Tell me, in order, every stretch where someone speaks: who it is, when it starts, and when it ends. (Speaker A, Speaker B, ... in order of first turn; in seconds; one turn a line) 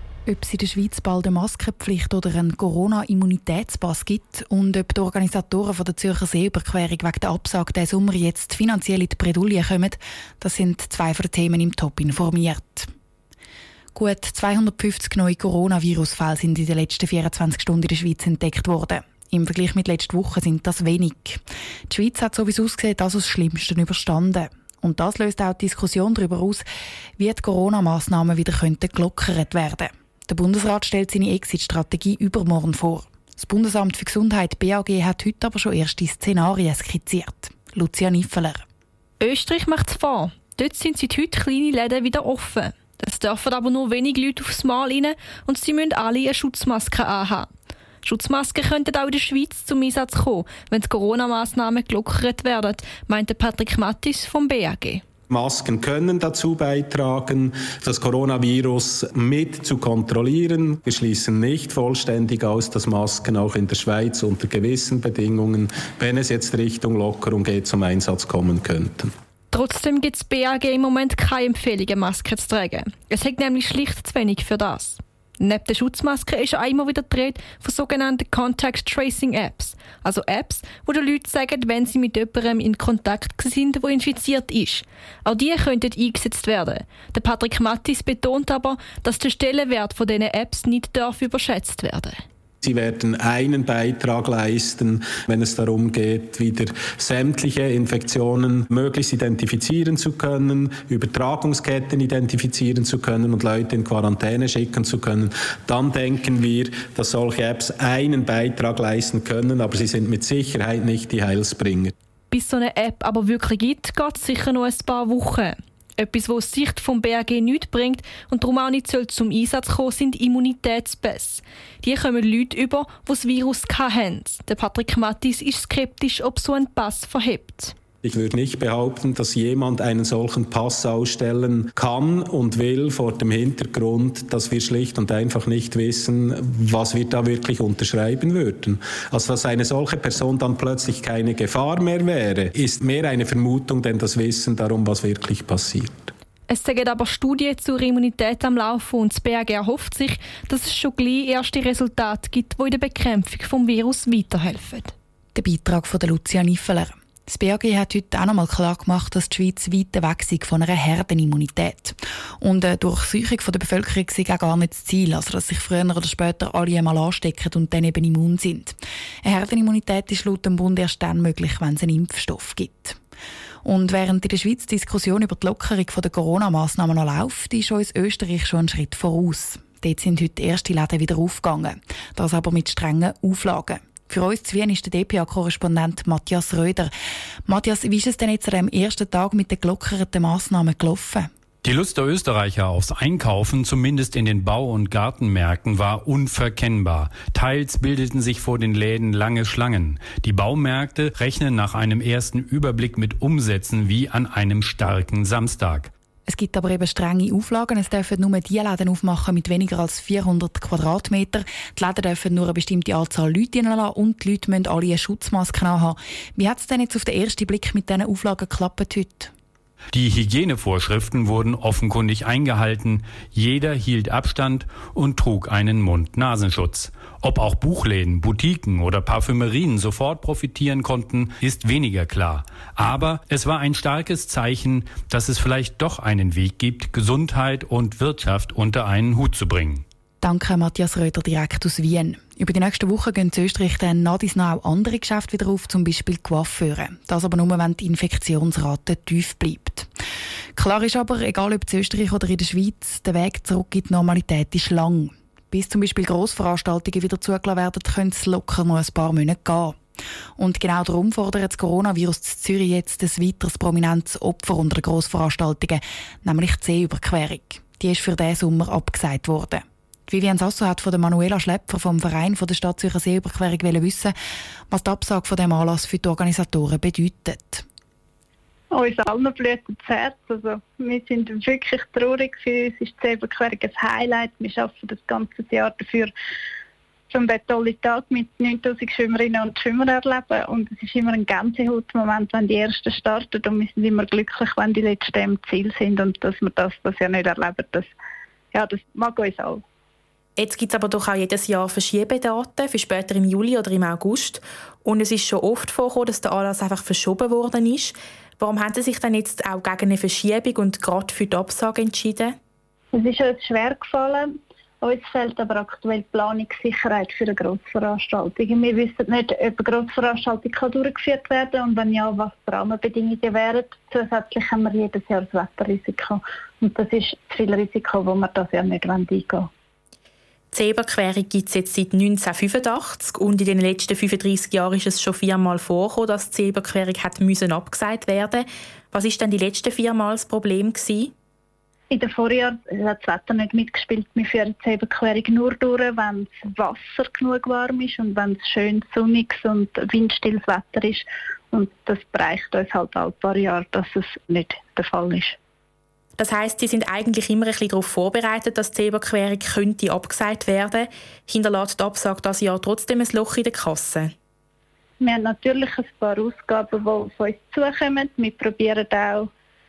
Speaker A: 0.3-12.9
Speaker A: 13.9-26.6
Speaker A: 27.2-38.6
Speaker B: 39.2-47.5
Speaker B: 48.0-55.0
Speaker C: 55.3-69.1
Speaker B: 69.5-92.2
Speaker C: 92.6-111.9
Speaker B: 112.3-127.8
Speaker C: 128.0-146.1
Speaker B: 146.5-154.9
Speaker A: 155.3-173.0
Speaker A: 173.6-186.9
Speaker A: 187.5-191.3
Speaker D: 191.6-205.9
Speaker A: 206.3-219.3
Speaker D: 219.9-239.8
Speaker A: 240.2-249.9
Speaker A: 250.6-259.8
Speaker A: 260.4-274.1
Speaker A: 274.7-277.6
Speaker E: 278.7-286.1
Speaker E: 287.1-297.9
Speaker E: 298.5-299.6
Speaker F: 300.4-312.3
Speaker E: 312.9-329.5
Speaker F: 330.5-341.1
Speaker E: 341.9-355.4
Speaker F: 356.2-364.1
Speaker E: 365.0-369.3